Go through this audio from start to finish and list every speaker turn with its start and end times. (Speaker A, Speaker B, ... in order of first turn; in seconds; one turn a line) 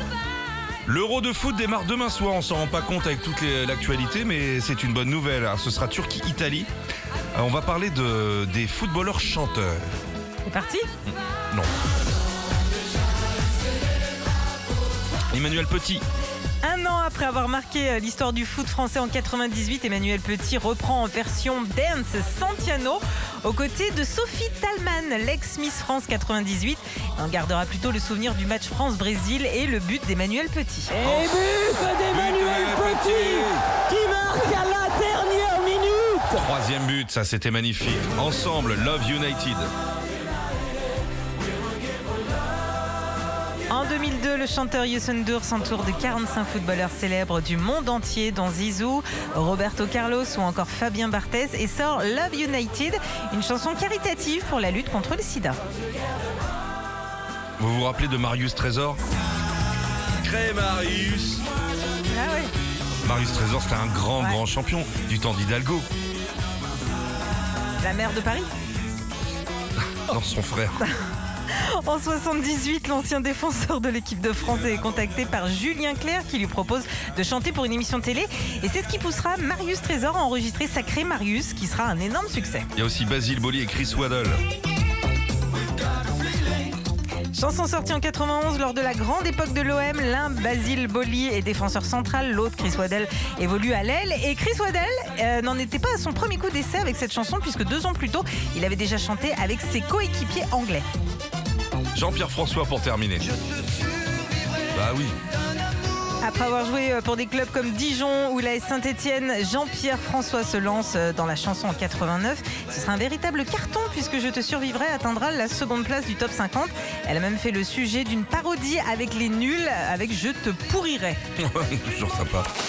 Speaker A: 0.9-6.7
Speaker A: 7.3-9.8
Speaker B: 10.4-10.9
Speaker A: 15.3-16.0
Speaker B: 16.6-30.9
Speaker C: 30.9-36.5
Speaker A: 31.0-33.6
Speaker A: 36.3-39.7
Speaker B: 43.7-55.6
Speaker A: 57.6-59.0
Speaker A: 60.2-61.4
Speaker B: 62.1-62.5
Speaker A: 63.0-65.9
Speaker B: 67.8-68.5
Speaker A: 70.1-70.8
Speaker B: 71.5-82.7
Speaker A: 82.8-84.4
Speaker B: 87.3-100.8
Speaker A: 101.9-103.3
Speaker A: 104.7-105.2
Speaker B: 106.2-121.2
Speaker A: 121.4-122.5